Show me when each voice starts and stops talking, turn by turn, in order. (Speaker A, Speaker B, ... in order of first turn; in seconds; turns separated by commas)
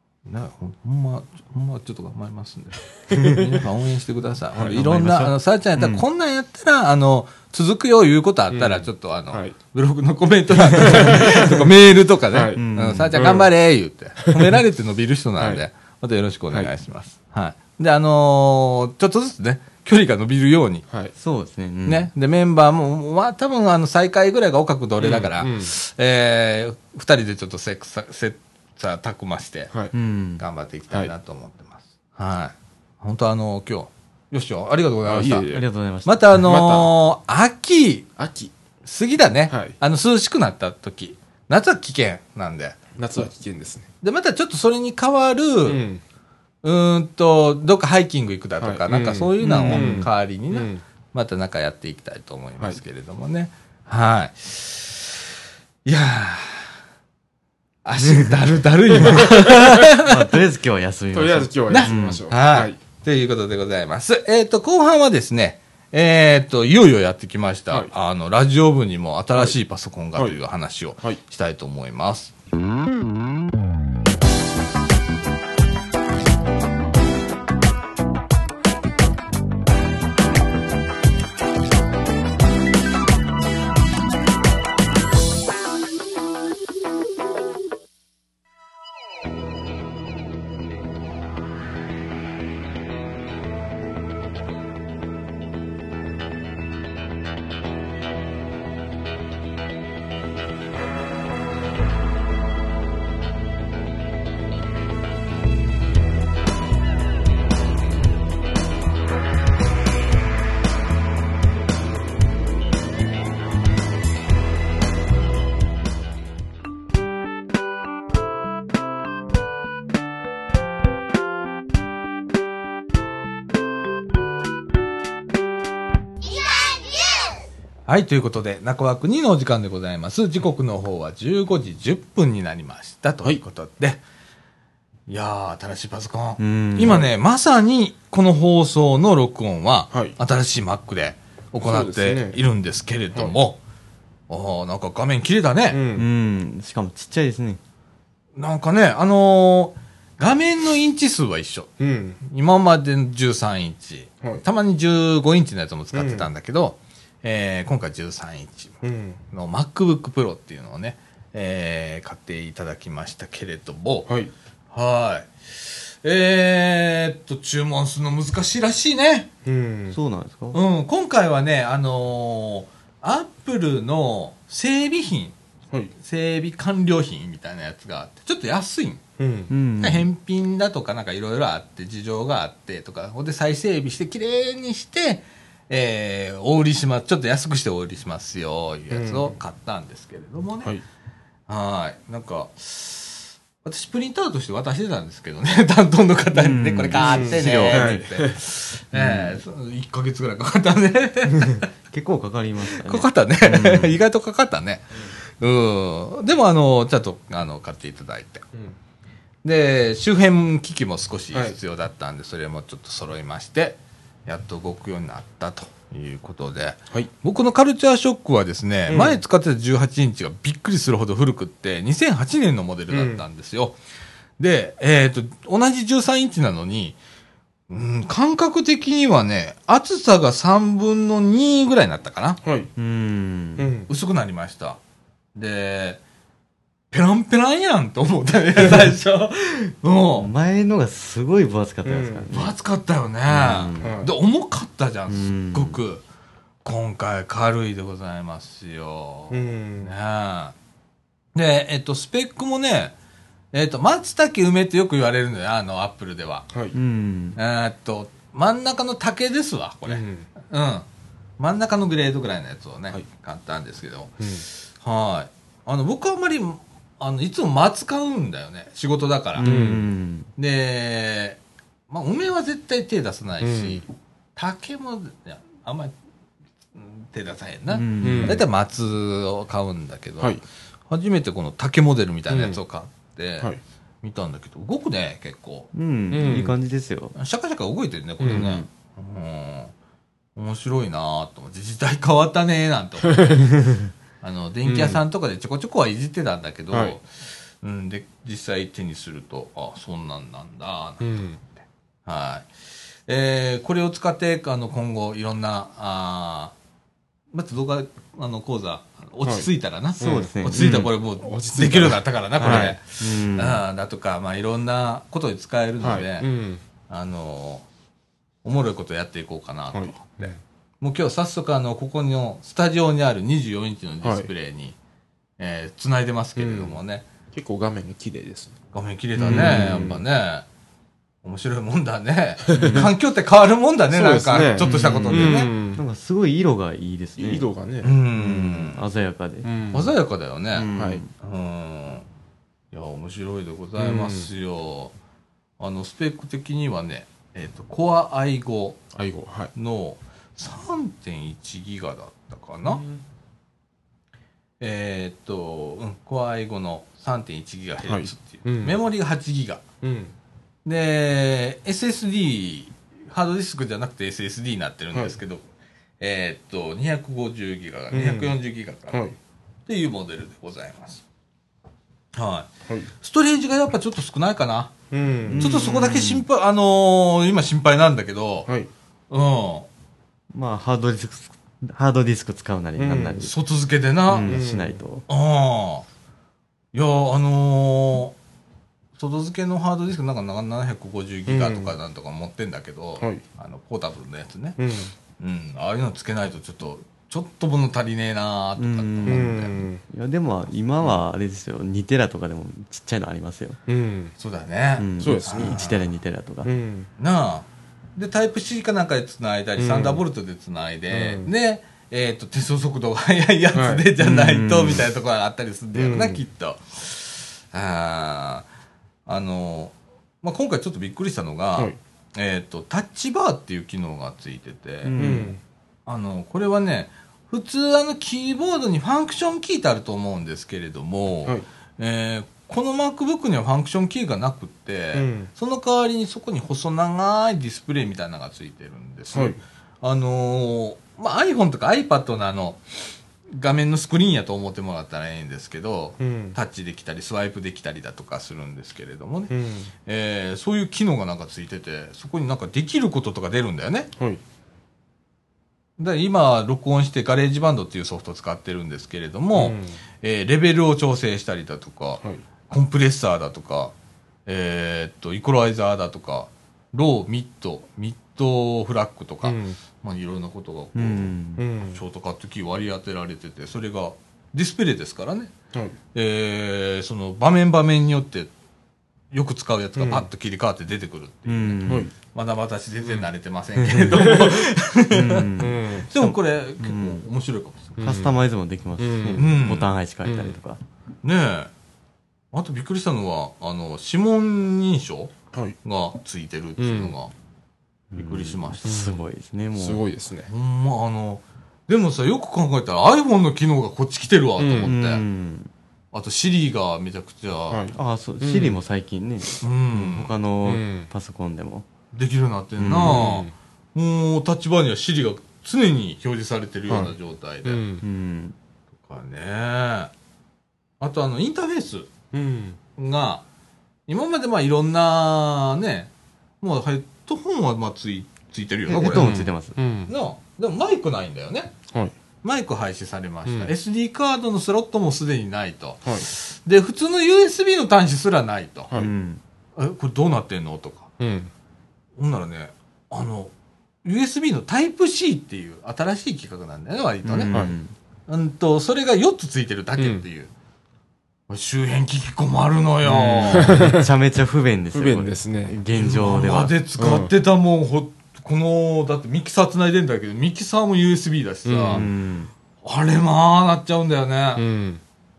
Speaker A: 0.3-20.9, Speaker B: 4.5-5.3, Speaker C: 5.8-6.1, Speaker B: 8.5-9.6, Speaker B: 10.7-11.7, Speaker C: 10.8-11.4, Speaker B: 12.3-12.6, Speaker C: 12.6-13.3, Speaker B: 13.2-13.5, Speaker B: 14.2-14.6, Speaker B: 20.9-21.1, Speaker C: 21.1-22.1, Speaker A: 21.9-29.7, Speaker B: 25.0-25.7, Speaker C: 29.9-30.4, Speaker A: 30.4-35.5, Speaker B: 35.1-35.7, Speaker C: 35.5-36.4, Speaker A: 36.1-38.1, Speaker B: 36.4-36.9, Speaker B: 38.2-38.5, Speaker A: 38.8-43.2, Speaker B: 39.5-39.8, Speaker B: 43.0-43.9, Speaker A: 44.0-45.8, Speaker B: 45.7-46.0, Speaker A: 46.6-55.2, Speaker B: 48.6-50.8, Speaker C: 49.6-50.1, Speaker A: 55.9-56.7, Speaker A: 57.9-60.2, Speaker B: 59.1-59.5, Speaker C: 59.9-62.3, Speaker B: 61.1-62.8, Speaker A: 61.7-72.3, Speaker A: 127.9-134.0, Speaker A: 135.1-143.6, Speaker C: 136.4-137.1, Speaker B: 139.9-140.2, Speaker B: 141.5-142.4, Speaker A: 144.3-145.8, Speaker B: 145.7-146.1, Speaker C: 145.9-147.6, Speaker A: 148.4-158.8, Speaker B: 151.8-152.2, Speaker B: 155.9-156.3, Speaker B: 158.8-159.2, Speaker A: 159.3-164.1, Speaker A: 164.7-169.3, Speaker B: 169.4-170.0, Speaker C: 169.9-170.6, Speaker A: 170.5-175.4, Speaker A: 176.0-179.0, Speaker B: 179.2-179.5, Speaker C: 179.5-180.1, Speaker A: 179.8-190.7, Speaker B: 188.9-189.3, Speaker A: 191.5-201.7, Speaker C: 196.3-198.1, Speaker B: 197.0-198.4, Speaker C: 198.9-199.4, Speaker C: 201.9-204.0, Speaker A: 202.6-208.4, Speaker A: 209.4-223.8, Speaker B: 218.9-219.2, Speaker B: 222.9-223.2, Speaker A: 224.4-227.0, Speaker A: 227.7-232.4, Speaker B: 232.4-232.7, Speaker C: 232.8-233.7, Speaker B: 233.6-233.9, Speaker A: 233.9-234.8, Speaker A: 235.3-236.0, Speaker A: 236.9-240.3, Speaker C: 240.2-242.6, Speaker B: 241.8-242.3, Speaker A: 242.3-246.0, Speaker C: 243.3-243.9, Speaker B: 243.8-244.1, Speaker C: 245.1-245.8, Speaker A: 246.6-250.6, Speaker B: 249.3-249.9, Speaker A: 251.3-252.9, Speaker A: 253.5-256.5, Speaker C: 256.7-257.4, Speaker A: 257.4-260.9, Speaker B: 259.9-260.3, Speaker A: 261.4-269.5, Speaker B: 264.2-264.4, Speaker C: 269.4-270.3, Speaker B: 269.4-269.9, Speaker A: 270.4-275.9, Speaker B: 273.4-273.8, Speaker A: 276.8-285.7, Speaker C: 277.7-278.4, Speaker B: 278.0-278.4, Speaker B: 282.3-282.6, Speaker C: 285.7-287.1, Speaker B: 286.1-286.6, Speaker A: 287.1-289.7, Speaker B: 288.2-288.6, Speaker C: 288.3-288.7, Speaker A: 290.4-293.4, Speaker A: 294.2-301.2, Speaker B: 294.6-295.0, Speaker B: 296.7-297.0, Speaker B: 301.0-301.4, Speaker A: 302.1-302.5, Speaker A: 303.1-306.6, Speaker A: 307.3-316.3, Speaker C: 310.0-310.9, Speaker B: 310.0-312.8, Speaker C: 312.4-313.6, Speaker B: 315.8-316.6, Speaker A: 316.9-317.7, Speaker A: 318.4-324.8, Speaker B: 319.7-320.4, Speaker B: 324.0-324.3, Speaker A: 325.4-327.1, Speaker B: 326.4-326.8, Speaker B: 327.3-328.6, Speaker A: 328.7-330.5, Speaker C: 329.2-329.9, Speaker B: 329.2-330.0, Speaker A: 331.2-335.5, Speaker B: 332.5-332.9, Speaker C: 332.5-332.9, Speaker B: 333.9-335.8, Speaker C: 334.6-337.5, Speaker B: 337.2-338.0, Speaker A: 337.8-338.8, Speaker C: 338.1-339.5, Speaker B: 339.4-339.9, Speaker A: 339.7-342.1, Speaker C: 340.5-341.1, Speaker B: 340.8-341.0, Speaker A: 342.7-344.9, Speaker B: 343.8-344.3, Speaker A: 345.6-348.8, Speaker B: 348.9-349.5, Speaker A: 349.6-352.8, Speaker B: 352.6-353.0, Speaker A: 354.6-359.6, Speaker B: 357.9-358.8, Speaker B: 359.8-360.1, Speaker A: 360.6-365.4, Speaker A: 366.0-369.0, Speaker B: 367.9-368.4, Speaker A: 369.7-371.0, Speaker A: 372.1-374.7, Speaker B: 374.9-375.6, Speaker C: 375.3-376.3, Speaker A: 375.4-378.5, Speaker A: 379.1-379.7, Speaker C: 380.3-383.4, Speaker B: 382.8-383.3, Speaker A: 383.2-384.4, Speaker C: 384.1-385.1, Speaker B: 384.2-384.8, Speaker A: 385.1-385.9, Speaker A: 386.7-388.2, Speaker A: 389.0-394.6, Speaker B: 391.3-391.8, Speaker B: 394.6-394.9, Speaker A: 395.2-399.5, Speaker C: 398.6-403.6, Speaker B: 399.1-399.8, Speaker B: 403.7-404.1, Speaker A: 404.2-405.9, Speaker C: 404.8-406.5, Speaker B: 405.0-405.6, Speaker B: 406.4-406.9, Speaker A: 407.0-418.5, Speaker B: 409.6-410.0, Speaker B: 410.9-411.3, Speaker B: 413.5-413.9, Speaker C: 414.0-414.9, Speaker B: 415.8-416.2, Speaker A: 419.1-425.2, Speaker C: 424.8-425.3, Speaker B: 425.0-425.4, Speaker A: 425.9-442.6, Speaker B: 434.9-435.3, Speaker B: 439.1-439.4, Speaker A: 443.3-449.3, Speaker B: 446.0-446.4, Speaker B: 449.3-449.7, Speaker A: 449.9-453.9, Speaker A: 455.8-463.7, Speaker B: 459.4-459.8, Speaker A: 464.3-475.3, Speaker B: 469.2-469.6, Speaker C: 470.8-471.4, Speaker B: 471.4-471.8, Speaker A: 475.9-478.3, Speaker A: 479.1-487.8, Speaker B: 479.8-480.1, Speaker C: 481.3-481.9, Speaker B: 481.7-481.9, Speaker C: 483.6-484.2, Speaker B: 484.0-484.4, Speaker C: 484.9-487.1, Speaker B: 485.4-485.9, Speaker B: 487.8-488.1, Speaker C: 487.8-490.6, Speaker B: 488.8-489.4, Speaker A: 489.2-489.7, Speaker B: 490.0-490.4, Speaker A: 491.0-491.5, Speaker A: 492.3-495.1, Speaker A: 495.6-497.1, Speaker B: 496.6-496.9, Speaker C: 497.9-499.8, Speaker A: 497.9-498.9, Speaker B: 498.6-498.9, Speaker B: 499.6-500.3, Speaker A: 500.3-505.0, Speaker B: 504.4-504.7, Speaker C: 504.6-505.5, Speaker A: 505.9-507.7, Speaker B: 507.5-508.6, Speaker C: 507.7-511.7, Speaker A: 509.4-510.1, Speaker B: 510.4-510.9, Speaker A: 511.9-517.6, Speaker C: 512.6-513.1, Speaker B: 512.8-513.3, Speaker B: 516.7-516.9, Speaker B: 517.5-517.9, Speaker C: 517.8-518.4, Speaker A: 518.9-519.9, Speaker A: 520.8-521.9, Speaker B: 522.1-522.6, Speaker A: 522.8-523.2, Speaker A: 523.9-529.2, Speaker C: 528.7-529.5, Speaker B: 528.7-529.9, Speaker A: 529.9-531.5, Speaker A: 532.2-538.7, Speaker B: 533.3-533.5, Speaker C: 538.7-539.2, Speaker A: 539.6-540.9, Speaker B: 541.0-541.3, Speaker A: 542.0-543.3, Speaker A: 543.8-547.5, Speaker C: 547.0-547.7, Speaker A: 548.1-550.3, Speaker B: 549.8-550.0, Speaker A: 551.3-553.7, Speaker C: 552.9-556.5, Speaker B: 553.0-553.9, Speaker B: 554.7-555.6, Speaker A: 555.7-561.9, Speaker B: 556.8-557.1, Speaker B: 561.5-561.9, Speaker C: 561.7-562.3, Speaker A: 562.6-564.4, Speaker B: 564.4-564.8